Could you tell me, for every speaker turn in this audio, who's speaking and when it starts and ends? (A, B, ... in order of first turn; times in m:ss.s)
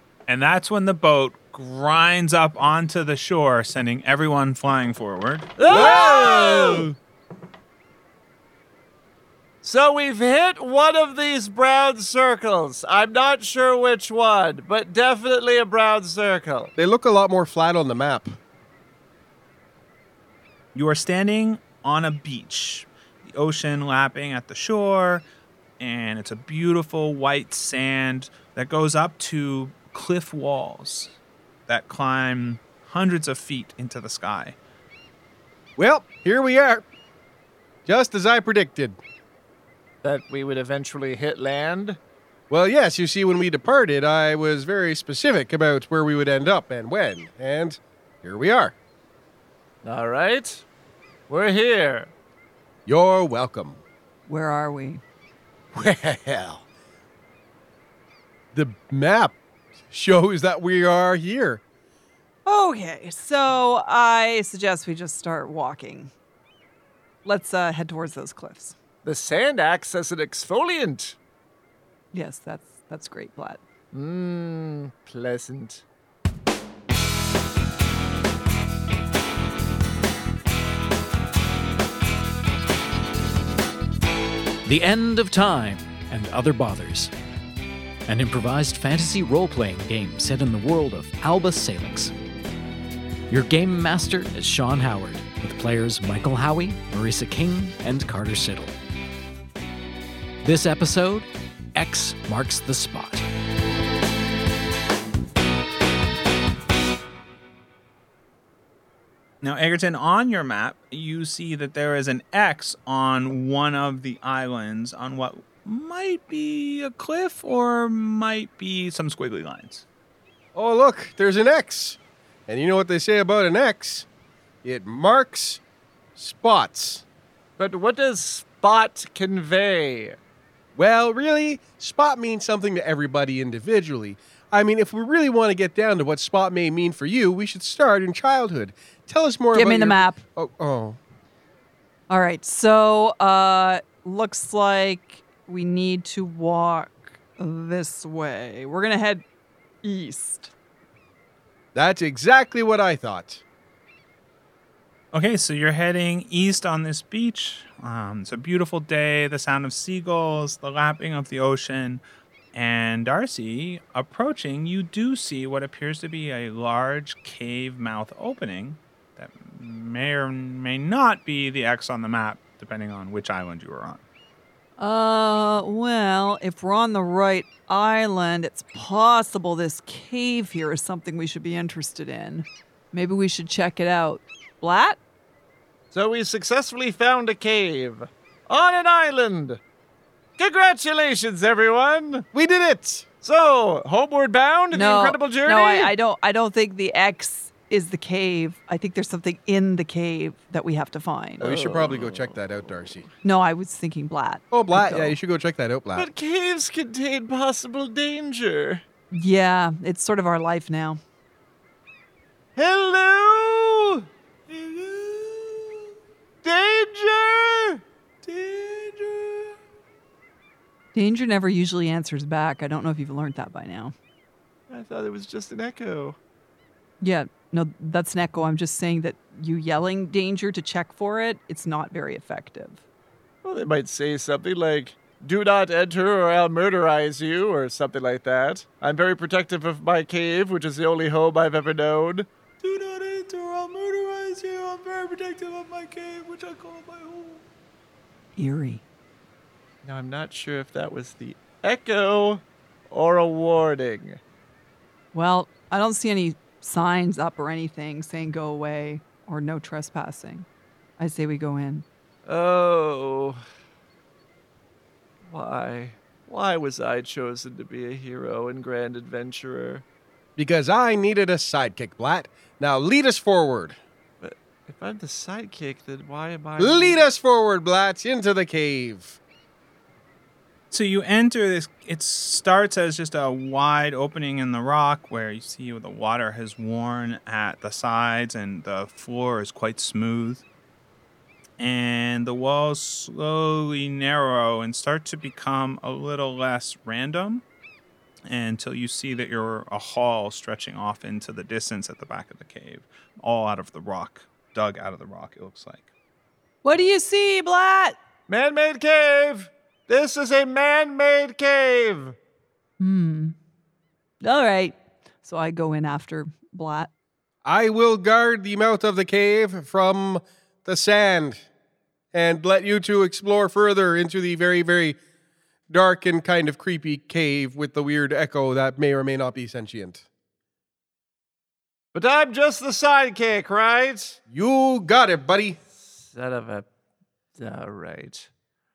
0:00.3-0:05.6 A
0:05.6-0:06.9 B
0:05.7-0:06.9 C
0:09.6-0:16.7 B
0:16.8-0:18.4 C
0:20.7-0:25.2 A
0:25.8-0:31.1 A
0:31.7-0:34.6 A
0:35.8-0:36.8 C
0:37.8-0:39.0 C
0:40.0-0:42.0 B
0:42.5-0:48.7 C
0:49.8-0:50.6 B
0:51.3-0:52.1 B
0:52.8-0:53.8 C
0:54.3-0:55.0 D
0:55.7-0:56.6 C
0:58.5-0:59.4 C
0:59.9-1:01.6 C
1:02.4-1:06.1 D
1:07.2-1:08.8 D
1:09.0-1:11.2 B
1:12.1-1:13.6 D
1:13.9-1:15.8 B
1:24.6-1:27.1 E
1:28.1-1:32.1 E
1:33.3-1:38.7 E
1:40.4-1:43.2 E
1:49.4-1:59.8 A
2:00.5-2:04.1 C
2:04.6-2:05.6 C
2:06.2-2:07.0 C
2:07.6-2:10.2 B
2:10.7-2:21.0 C
2:19.5-2:20.2 D
2:22.1-2:29.2 D
2:29.8-2:30.5 D
2:31.7-2:33.4 C
2:35.1-2:42.0 A
2:42.5-2:54.0 A
2:54.8-3:05.0 D
3:05.9-3:09.6 B
3:10.4-3:12.2 B
3:12.3-3:13.0 C
3:13.2-3:15.9 B
3:14.7-3:21.4 D
3:21.4-3:23.1 C
3:21.4-3:23.0 B
3:23.2-3:25.2 D
3:24.5-3:26.1 C
3:25.9-3:28.8 B
3:29.1-3:31.0 D
3:32.6-3:34.0 B
3:34.5-3:35.8 A
3:36.4-3:37.8 B
3:38.2-3:39.2 A
3:40.9-3:43.9 D
3:44.7-3:46.2 B
3:47.0-3:52.8 D
3:53.4-4:02.3 B
4:02.6-4:07.4 A
4:08.4-4:08.8 D
4:09.8-4:14.2 B
4:15.1-4:20.5 D
4:21.0-4:21.8 D
4:22.2-4:23.4 B
4:25.2-4:29.8 B
4:30.4-4:33.8 C
4:34.2-4:37.0 B
4:36.6-4:39.2 C
4:40.7-4:50.4 A
4:51.6-4:57.4 A
4:58.3-5:05.9 A
5:06.6-5:08.0 D
5:08.3-5:12.2 B
5:12.8-5:13.4 D
5:14.2-5:16.9 D
5:17.4-5:21.4 C
5:22.1-5:25.0 C
5:25.7-5:30.0 C
5:31.9-5:34.2 B
5:34.3-5:35.6 C
5:35.7-5:36.6 B
5:37.4-5:38.3 B